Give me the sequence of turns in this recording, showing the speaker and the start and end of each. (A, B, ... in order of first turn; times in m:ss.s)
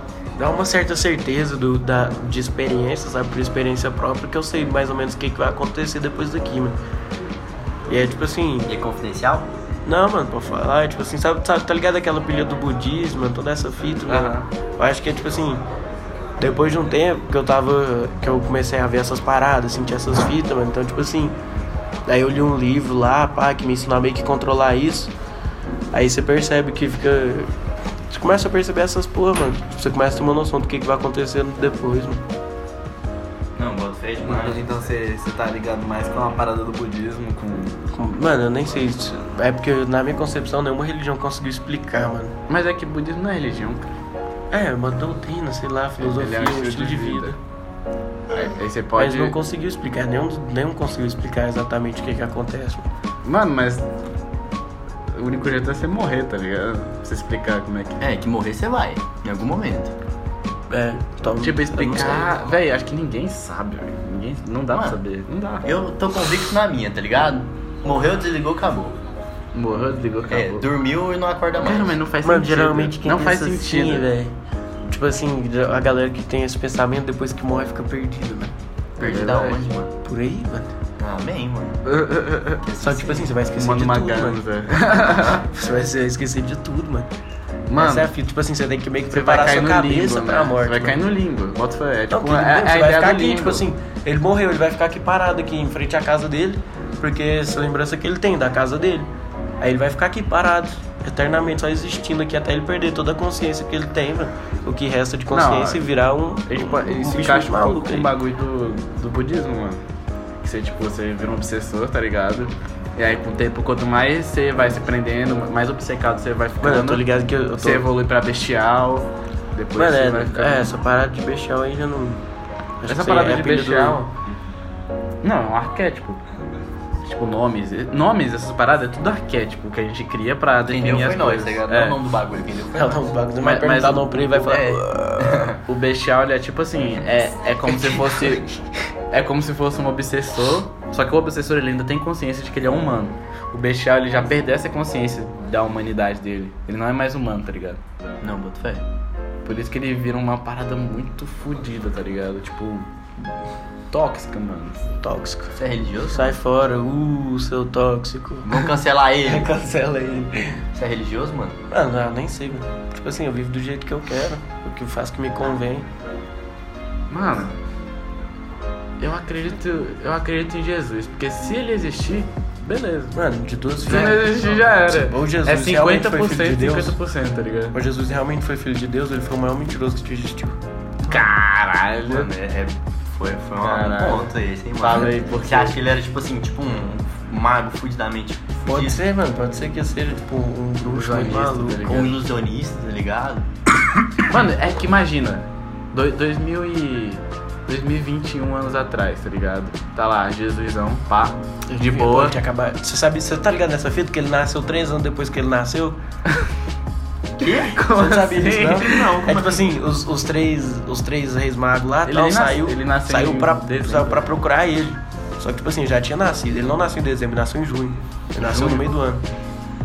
0:00.4-0:06.8 A
0:07.9-0:08.7 A
0:08.7-0:09.5 B
0:09.8-0:15.6 A
0:14.1-0:14.5 C
0:16.4-0:21.4 A
0:22.0-0:25.1 A
0:25.9-0:27.5 A
0:28.1-0:32.2 A
0:33.6-0:34.8 B
0:34.2-0:37.9 C
0:37.9-0:42.3 A
0:42.5-0:43.9 C
0:44.5-0:47.4 A
0:46.0-0:47.3 C
0:48.3-0:49.3 C
0:49.0-0:52.9 A
0:53.2-0:53.8 C
0:55.1-0:58.0 C
0:58.0-0:59.9 B
1:00.7-1:02.3 A
1:01.4-1:05.7 C
1:04.7-1:05.0 B
1:05.6-1:08.9 B
1:09.5-1:10.6 C
1:10.3-1:12.0 B
1:11.6-1:14.1 C
1:12.2-1:14.3 A
1:14.9-1:18.5 A
1:19.0-1:19.9 B
1:19.0-1:19.6 C
1:20.0-1:20.7 A
1:21.0-1:21.8 B
1:21.8-1:22.6 C
1:22.6-1:23.3 B
1:22.8-1:27.1 A
1:23.5-1:25.4 C
1:27.7-1:28.1 C
1:27.8-1:31.0 A
1:29.1-1:33.6 C
1:32.1-1:39.1 A
1:39.6-1:48.1 A
1:45.3-1:45.8 C
1:46.5-1:49.8 C
1:50.4-1:57.1 C
1:56.6-1:57.9 A
1:57.6-2:00.7 C
1:59.8-2:02.2 A
2:02.8-2:04.1 A
2:02.9-2:04.0 C
2:05.2-2:06.2 C
2:07.0-2:12.0 C
2:10.6-2:13.0 B
2:12.7-2:15.5 A
2:13.4-2:14.8 C
2:15.4-2:18.5 C
2:17.8-2:18.2 A
2:19.1-2:27.8 C
2:28.2-2:28.8 B
2:29.4-2:32.9 C
2:33.9-2:34.9 C
2:35.0-2:35.5 A
2:35.5-2:36.3 B
2:36.1-2:38.7 A
2:38.4-2:39.5 B
2:39.2-2:40.6 A
2:40.7-2:41.6 B
2:41.7-2:45.8 A
2:47.1-2:47.5 C
2:49.0-2:53.2 C
2:53.1-2:57.0 A
2:53.8-2:57.8 C
2:57.7-3:00.6 A
3:01.1-3:02.3 C
3:02.0-3:09.0 B
3:03.6-3:05.8 C
3:08.6-3:11.9 A
3:10.8-3:12.2 C
3:11.8-3:13.5 B
3:14.3-3:22.4 C
3:21.7-3:26.0 A
3:27.4-3:27.7 B
3:27.4-3:29.2 C
3:27.9-3:39.2 A
3:28.8-3:29.7 B
3:32.0-3:34.3 C
3:38.4-3:38.8 C